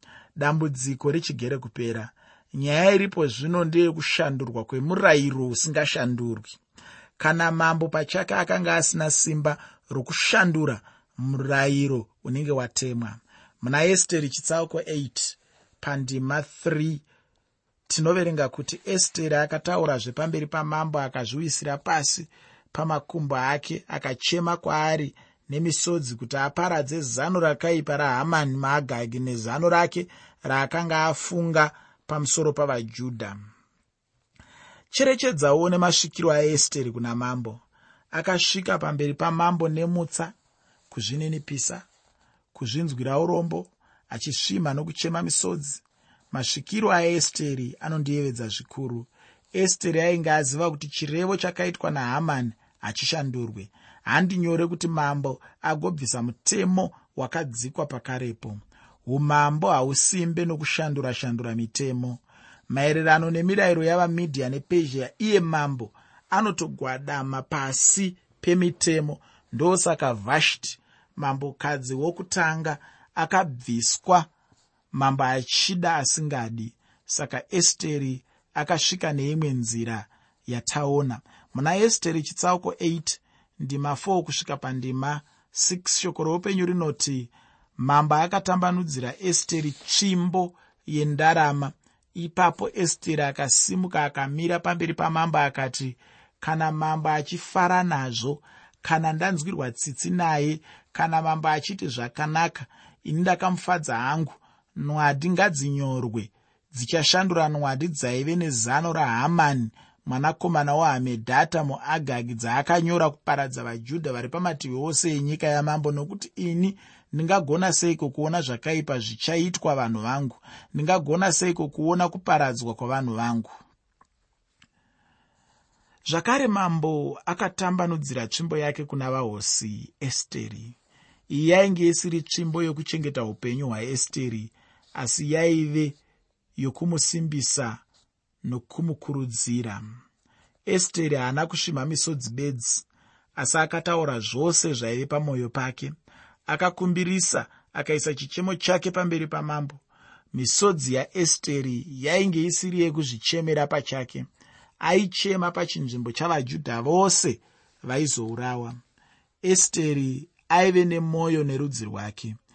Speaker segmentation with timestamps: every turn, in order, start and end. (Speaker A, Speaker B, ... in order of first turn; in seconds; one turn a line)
Speaker A: 0.4-6.6
Speaker A: 7.2-17.0
Speaker A: 17.9-33.4
Speaker A: 34.9-40.3
Speaker A: 40.9-41.9
Speaker A: 42.5-74.3
Speaker A: 74.9-123.6
Speaker A: 126.1-130.8
Speaker A: 131.3-136.0
Speaker A: 136.6-137.8
Speaker A: 138.4-139.8
Speaker A: 140.7-145.9
Speaker A: 146.5-154.3
Speaker A: 154.8-158.8
Speaker A: 159.4-162.3